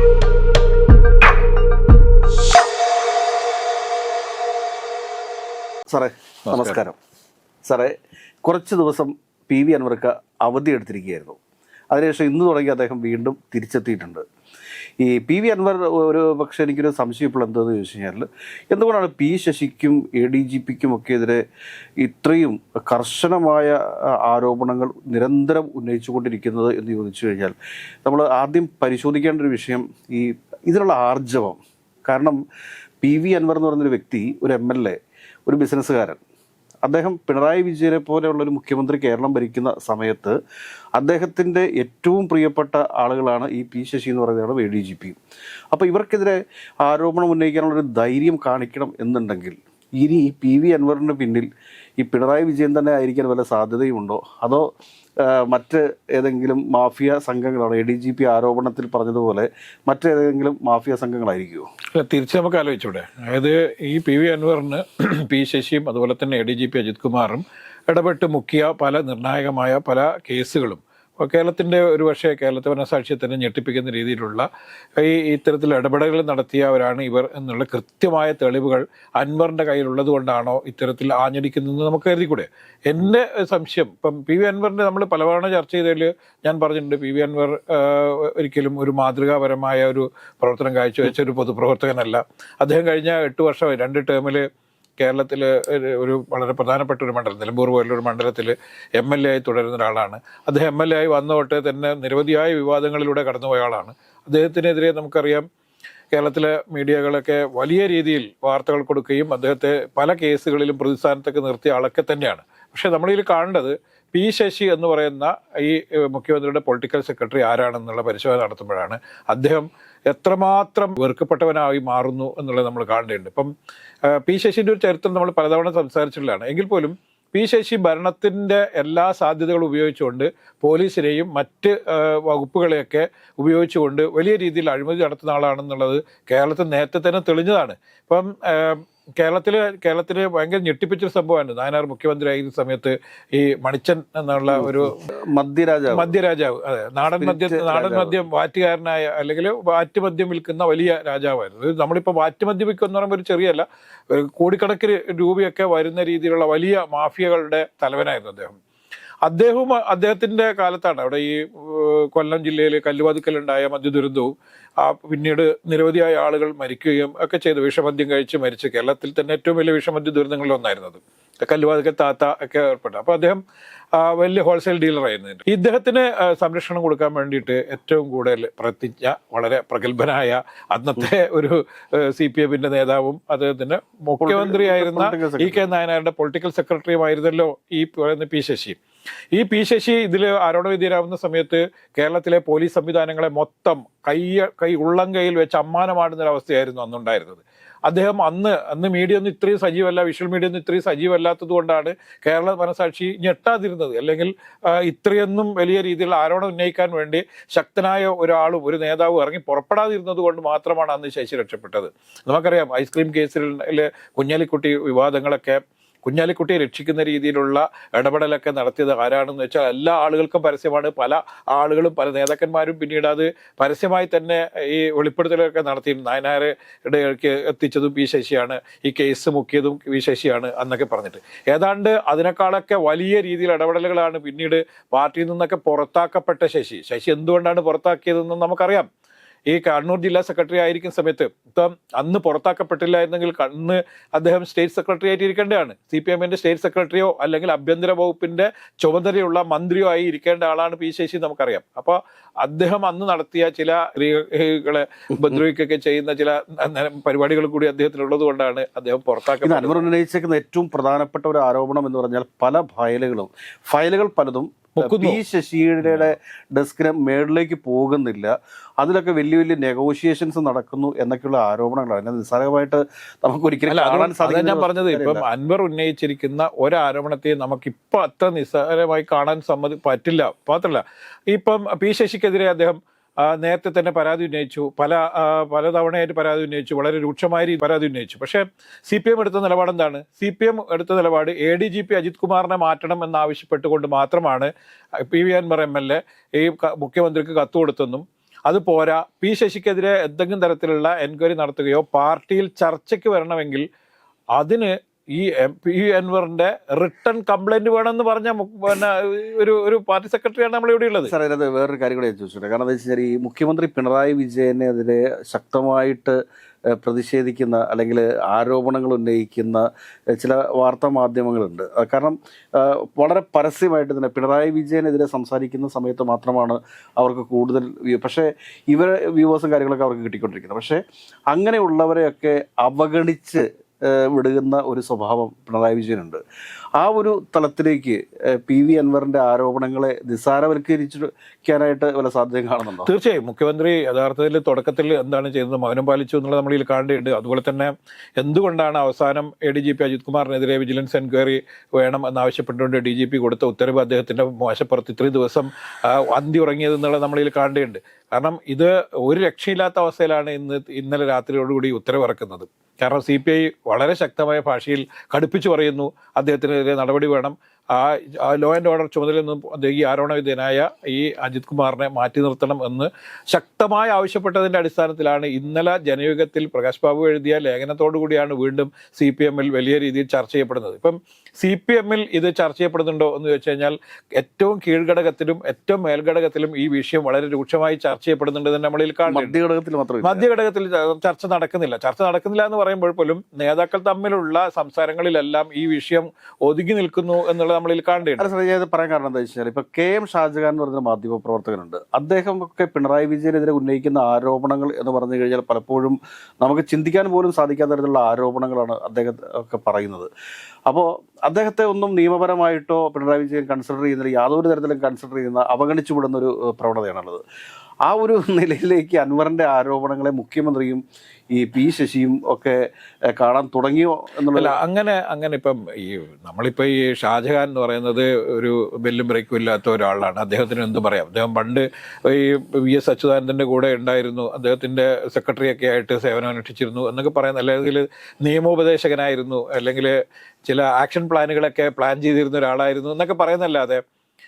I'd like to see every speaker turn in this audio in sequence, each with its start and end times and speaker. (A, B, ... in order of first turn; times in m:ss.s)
0:05.9-0:07.0 A
0:06.5-0:06.8 B
0:07.6-0:11.4 A
0:11.9-0:14.2 A
0:15.0-0:21.4 A
0:22.0-0:27.5 A
0:28.0-0:32.4 A
0:33.0-0:36.2 A
0:36.8-0:40.3 A
0:41.0-0:45.2 A
0:45.7-0:51.5 A
0:52.0-0:54.7 A
0:55.2-1:01.6 A
1:01.9-1:34.4 B
1:35.0-1:45.4 B
1:46.1-2:03.5 B
2:04.0-2:24.9 B
2:24.5-2:26.1 A
2:25.9-2:38.6 B
2:27.2-2:28.2 A
2:39.2-2:53.4 B
2:53.9-3:08.8 B
3:04.2-3:05.6 A
3:09.3-3:58.9 B
3:59.5-4:19.8 B
4:19.4-4:35.2 A
4:24.8-4:25.2 B
4:33.7-5:03.6 B
5:04.3-5:11.1 B
5:11.1-5:16.2 A
5:16.7-5:30.8 A
5:31.3-5:36.2 A
5:36.8-5:42.9 A
5:42.8-6:29.4 B
6:29.1-6:30.2 A
6:30.0-6:38.3 B
6:38.2-6:50.1 A
6:50.7-6:57.2 A
6:57.8-7:04.6 A
7:04.3-7:23.8 B